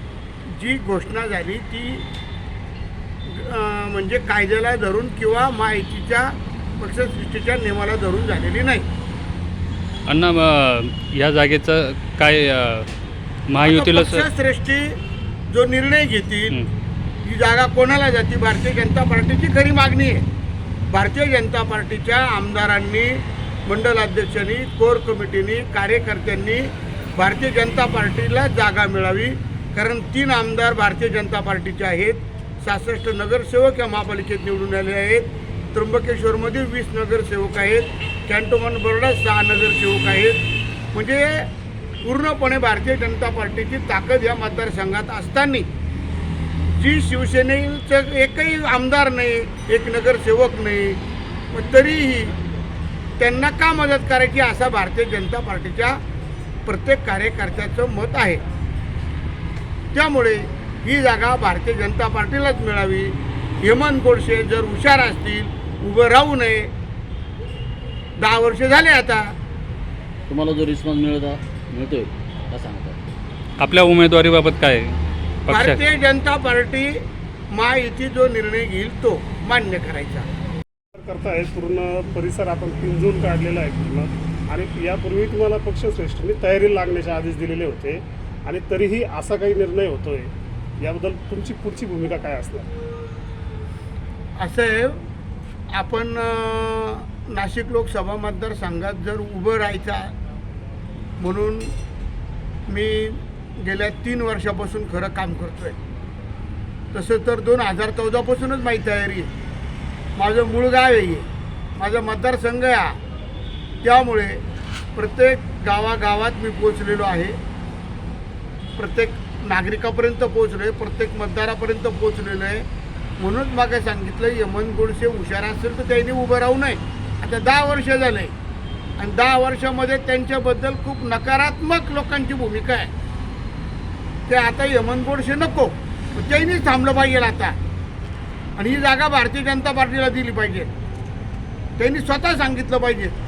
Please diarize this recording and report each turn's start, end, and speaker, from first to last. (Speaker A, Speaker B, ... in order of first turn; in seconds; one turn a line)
Speaker A: 0.5-2.1
Speaker A: 3.3-8.9
Speaker B: 10.1-12.9
Speaker B: 13.5-14.3
Speaker A: 13.6-15.0
Speaker A: 15.5-16.6
Speaker A: 17.2-20.2
Speaker A: 20.9-41.5
Speaker A: 42.0-45.7
Speaker A: 46.6-51.0
Speaker A: 51.5-52.4
Speaker A: 53.2-56.0
Speaker A: 56.6-58.4
Speaker A: 59.9-66.7
Speaker A: 68.2-69.3
Speaker C: 70.3-73.0
Speaker B: 73.6-75.8
Speaker A: 75.5-80.3
Speaker D: 81.0-92.7
Speaker A: 94.4-95.0
Speaker A: 95.7-100.1
Speaker A: 101.2-101.7
Speaker A: 102.7-105.8
Speaker A: 106.9-109.3
Speaker A: 110.2-111.3
Speaker A: 111.8-113.0
Speaker A: 113.8-114.4
Speaker A: 115.0-117.4
Speaker A: 118.8-122.7
Speaker A: 123.2-128.3
Speaker A: 129.0-132.9
Speaker A: 134.3-137.6
Speaker A: 138.6-140.7
Speaker A: 141.8-143.2